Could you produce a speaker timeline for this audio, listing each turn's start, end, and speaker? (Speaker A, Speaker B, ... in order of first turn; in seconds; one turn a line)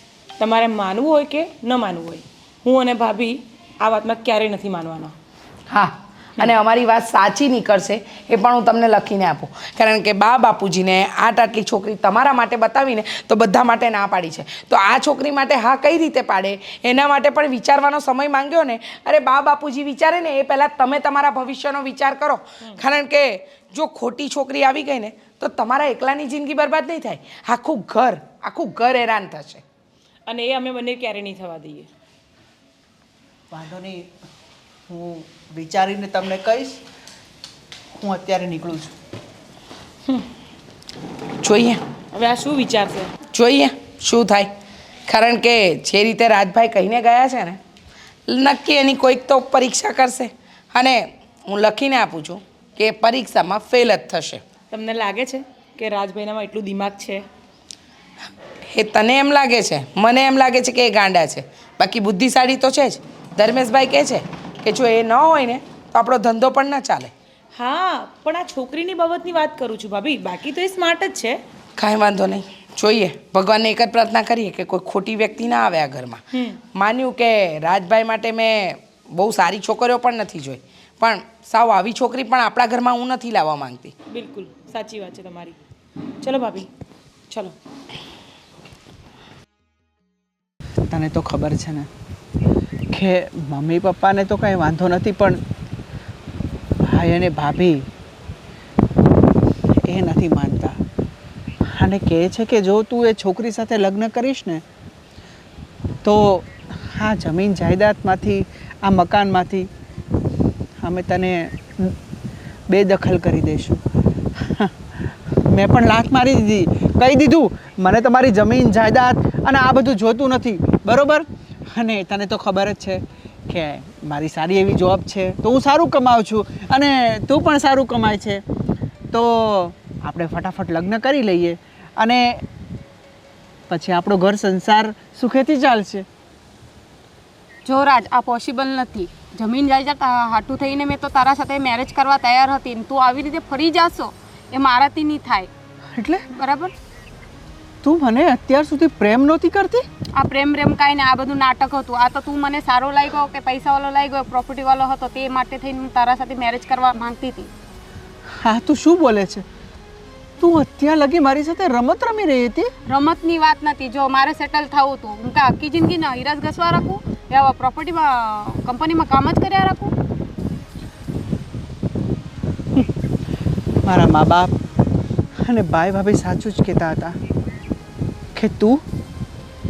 Speaker A: 0.4-5.1
Speaker B: 5.7-29.6
Speaker A: 30.3-31.9
Speaker C: 33.5-33.9
Speaker C: 34.9-36.8
Speaker C: 38.0-39.0
Speaker B: 41.4-41.8
Speaker A: 42.1-43.2
Speaker B: 43.3-44.5
Speaker B: 45.1-47.6
Speaker B: 48.3-54.5
Speaker A: 54.7-57.2
Speaker B: 58.7-67.1
Speaker A: 67.6-71.4
Speaker B: 71.8-76.2
Speaker A: 76.3-76.6
Speaker B: 76.8-83.9
Speaker A: 84.1-85.6
Speaker A: 86.2-86.7
Speaker C: 90.9-91.9
Speaker C: 92.9-95.4
Speaker C: 97.0-97.8
Speaker C: 99.9-100.8
Speaker C: 101.8-104.6
Speaker C: 106.0-106.5
Speaker C: 107.0-109.7
Speaker C: 110.8-111.9
Speaker C: 112.7-113.8
Speaker C: 115.5-121.2
Speaker C: 121.8-123.0
Speaker C: 123.5-128.4
Speaker C: 129.1-132.2
Speaker C: 133.7-136.0
Speaker D: 137.7-145.5
Speaker D: 146.3-146.7
Speaker C: 147.8-149.8
Speaker D: 150.2-157.5
Speaker C: 158.5-159.4
Speaker C: 160.4-162.7
Speaker D: 162.9-169.9
Speaker C: 173.9-174.5
Speaker C: 175.5-177.1
Speaker C: 178.4-178.8